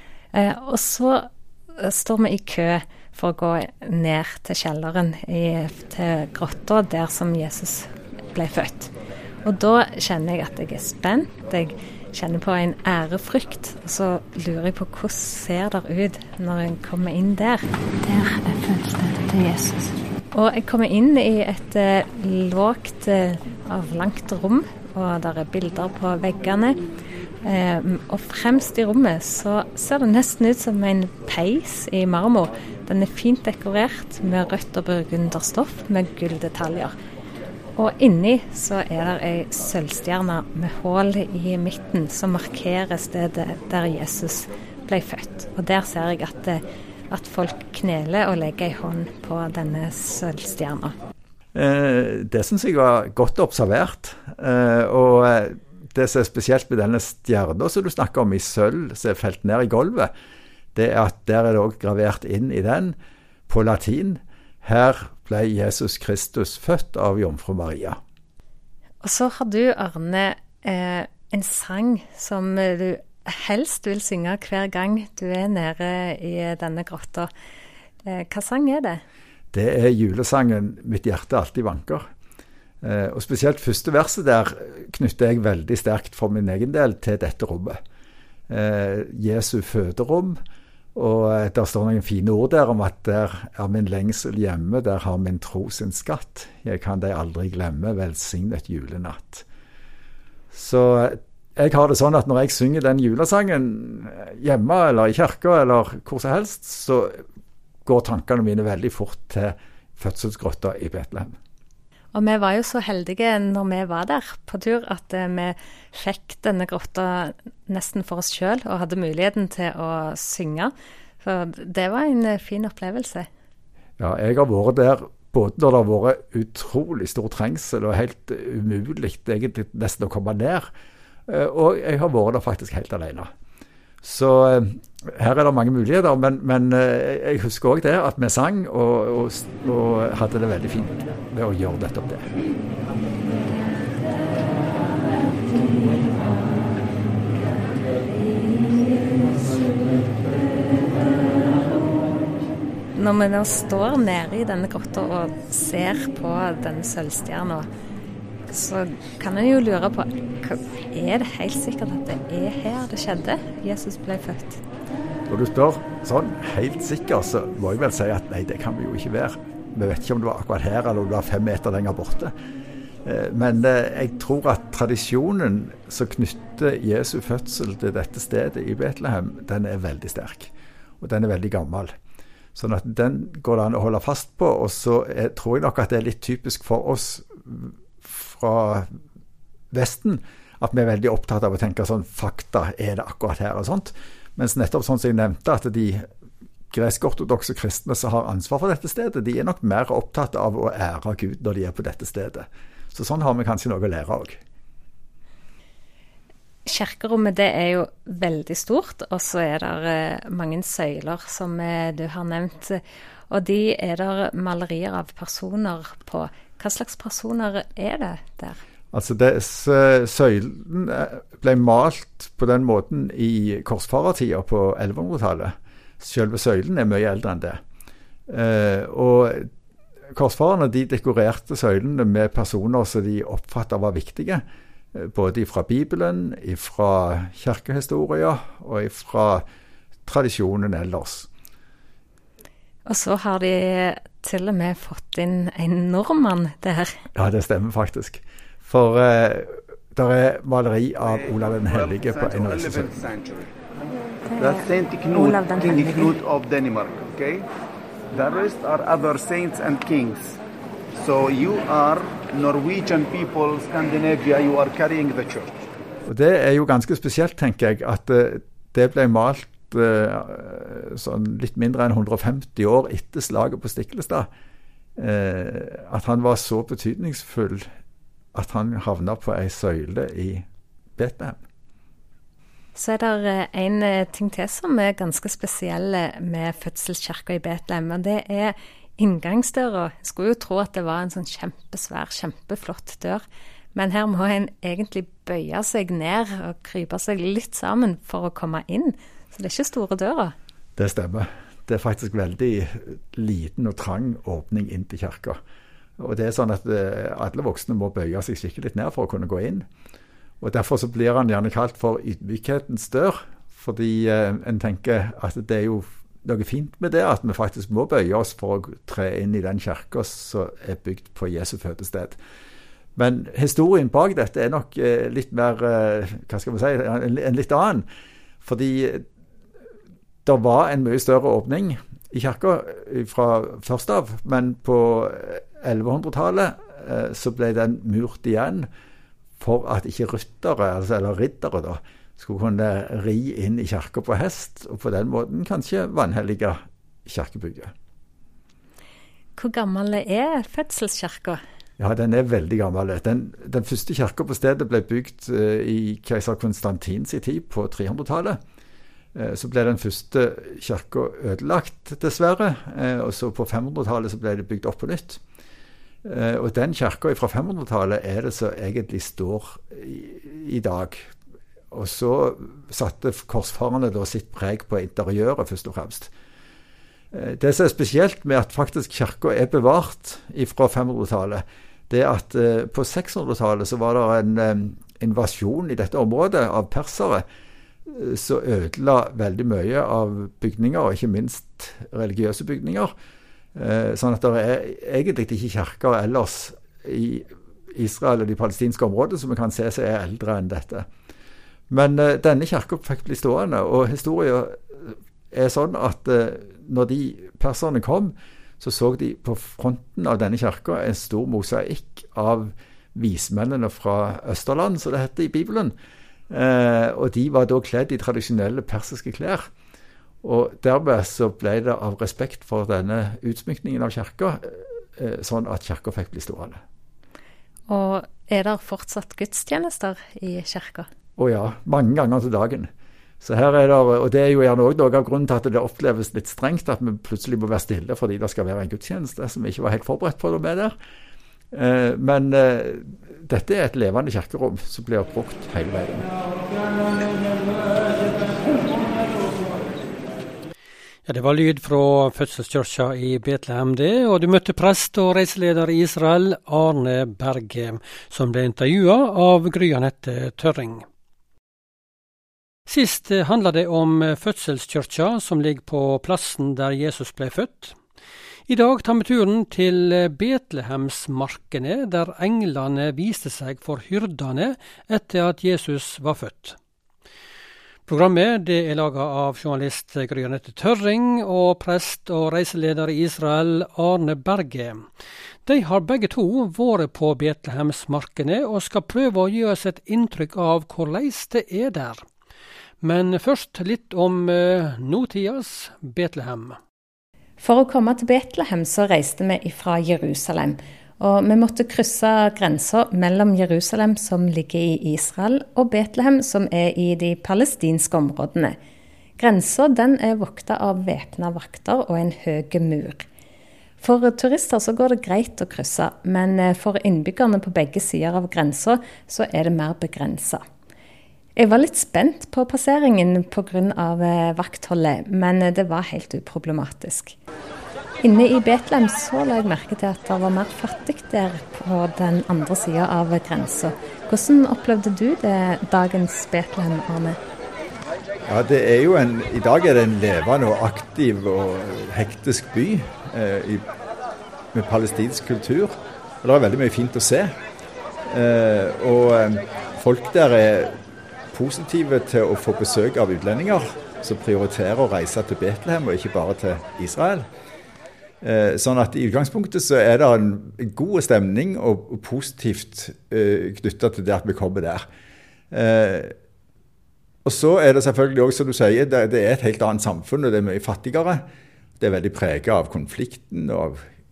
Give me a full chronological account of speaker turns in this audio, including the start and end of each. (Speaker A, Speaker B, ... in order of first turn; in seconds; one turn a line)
Speaker A: 0.3-8.9
Speaker A: 9.4-26.8
Speaker A: 27.4-36.9
Speaker A: 37.8-50.9
Speaker B: 51.5-60.1
Speaker B: 60.7-63.0
Speaker B: 63.5-68.0
Speaker A: 69.0-77.3
Speaker A: 78.0-79.0
Speaker B: 79.5-82.1
Speaker B: 82.8-87.8
Speaker B: 88.5-90.4
Speaker B: 90.9-99.5
Speaker B: 100.5-107.2
Speaker B: 107.8-111.3
Speaker A: 112.1-123.3
Speaker B: 124.0-130.7
Speaker B: 131.3-133.3
Speaker B: 134.0-142.3
Speaker A: 152.9-157.7
Speaker A: 158.5-164.6
Speaker B: 165.3-172.3
Speaker B: 173.0-181.9
Speaker B: 182.5-188.9
Speaker B: 189.7-196.1
Speaker B: 196.7-204.4
Speaker A: 206.7-218.6
Speaker B: 218.9-227.6
Speaker B: 228.3-229.5
Speaker B: 230.1-234.4
Speaker B: 234.9-239.4
Speaker B: 240.1-241.3
Speaker A: 242.9-247.0
Speaker B: 247.1-252.9
Speaker C: 251.1-253.5
Speaker A: 254.3-256.1
Speaker C: 254.4-257.4
Speaker C: 258.1-260.4
Speaker C: 261.0-265.6
Speaker B: 266.1-274.3
Speaker B: 275.0-277.7
Speaker B: 278.3-280.4
Speaker B: 280.9-281.4
Speaker A: 282.7-293.2
Speaker A: 293.7-300.3
Speaker B: 300.8-305.4
Speaker B: 306.0-309.7
Speaker B: 310.4-322.2
Speaker B: 322.9-327.9
Speaker B: 328.4-329.0
Speaker B: 330.2-338.7
Speaker B: 339.4-347.7
Speaker A: 349.4-351.4
Speaker B: 351.8-358.4
Speaker B: 359.1-365.2
Speaker B: 366.0-371.1
Speaker B: 371.7-376.1
Speaker B: 377.1-387.2
Speaker B: 387.9-392.9
Speaker B: 393.5-400.9
Speaker B: 401.7-415.7
Speaker B: 416.3-419.5
Speaker B: 420.2-426.6
Speaker A: 427.7-430.9
Speaker B: 431.2-432.7
Speaker B: 433.2-440.7
Speaker B: 441.5-446.1
Speaker D: 451.1-460.9
Speaker D: 462.7-467.8
Speaker D: 468.5-476.6
Speaker D: 477.9-484.8
Speaker D: 485.4-492.0
Speaker D: 492.8-496.6
Speaker A: 497.4-508.6
Speaker A: 509.2-513.0
Speaker A: 513.8-520.4
Speaker A: 521.4-527.1
Speaker A: 528.0-537.2
Speaker B: 538.2-543.6
Speaker B: 544.5-547.3
Speaker B: 548.0-550.8
Speaker B: 551.3-557.3
Speaker B: 558.2-564.9
Speaker B: 565.5-566.1
Speaker B: 567.2-571.2
Speaker B: 571.8-573.8